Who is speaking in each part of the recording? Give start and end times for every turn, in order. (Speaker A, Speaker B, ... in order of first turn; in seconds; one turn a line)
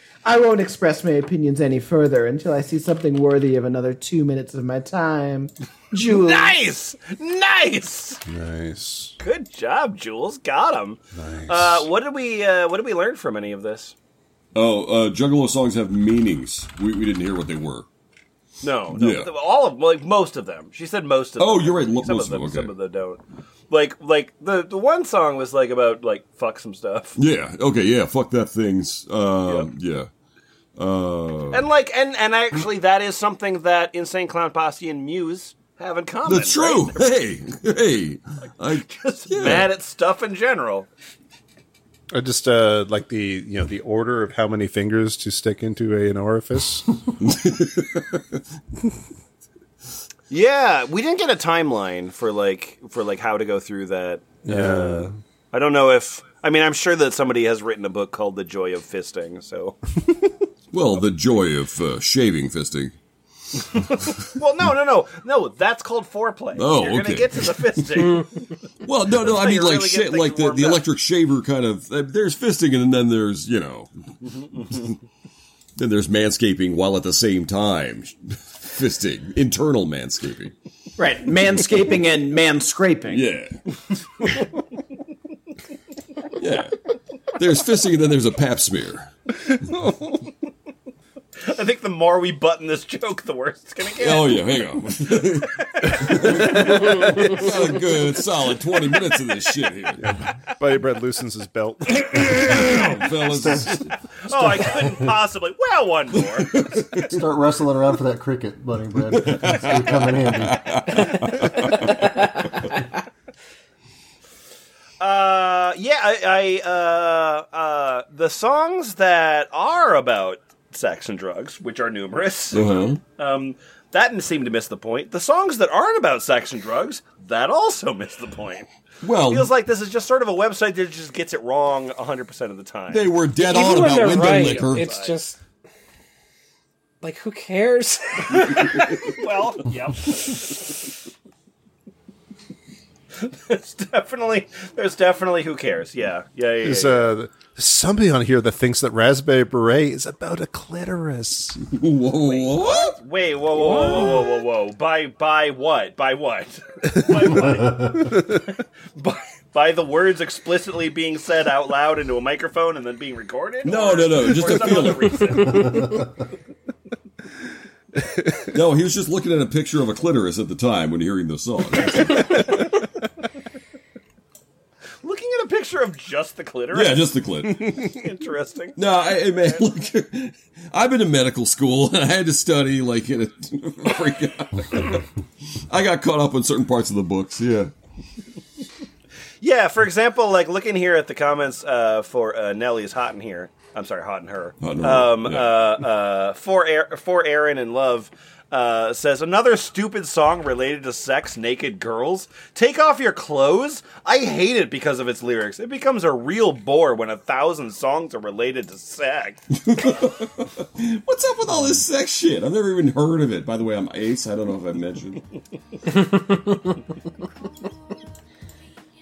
Speaker A: 0.2-6.5
Speaker B: 6.1-8.2
Speaker C: 8.2-9.1
Speaker B: 9.2-13.9
Speaker C: 11.1-11.9
Speaker D: 14.5-17.9
Speaker B: 18.6-27.2
Speaker D: 18.9-19.3
Speaker D: 21.4-22.7
Speaker D: 27.1-30.1
Speaker D: 30.8-31.6
Speaker B: 31.5-37.0
Speaker D: 36.3-39.7
Speaker B: 38.6-40.9
Speaker C: 42.1-46.9
Speaker D: 47.2-48.2
Speaker B: 50.3-59.8
Speaker C: 54.5-55.1
Speaker D: 60.7-62.9
Speaker B: 63.7-68.3
Speaker D: 66.5-68.2
Speaker D: 68.8-73.9
Speaker B: 69.2-70.8
Speaker D: 75.8-80.5
Speaker A: 81.0-83.2
Speaker D: 83.1-83.6
Speaker D: 86.3-86.8
Speaker D: 87.3-89.1
Speaker B: 91.4-94.4
Speaker D: 94.0-100.1
Speaker B: 95.6-96.2
Speaker C: 96.1-97.1
Speaker E: 97.0-97.4
Speaker C: 100.0-102.8
Speaker D: 102.0-104.0
Speaker B: 104.2-106.5
Speaker C: 104.3-104.9
Speaker D: 106.2-107.2
Speaker F: 106.9-111.1
Speaker D: 109.1-112.7
Speaker E: 112.0-112.4
Speaker B: 115.0-122.6
Speaker D: 122.5-123.0
Speaker B: 123.2-128.7
Speaker D: 129.0-129.5
Speaker B: 129.2-133.1
Speaker D: 132.9-134.9
Speaker E: 133.3-135.4
Speaker B: 133.9-135.1
Speaker E: 137.0-139.1
Speaker D: 138.4-139.0
Speaker B: 139.0-140.4
Speaker B: 143.2-147.1
Speaker C: 146.6-151.6
Speaker D: 151.7-152.9
Speaker B: 152.2-158.0
Speaker D: 153.6-154.2
Speaker C: 158.0-158.4
Speaker B: 158.9-165.8
Speaker D: 163.6-165.6
Speaker E: 165.3-165.9
Speaker F: 165.5-166.1
Speaker D: 168.5-172.5
Speaker B: 175.0-178.8
Speaker D: 176.7-177.8
Speaker D: 178.8-185.1
Speaker D: 185.7-187.7
Speaker B: 189.4-209.4
Speaker D: 194.6-195.6
Speaker D: 209.6-215.2
Speaker E: 215.9-216.7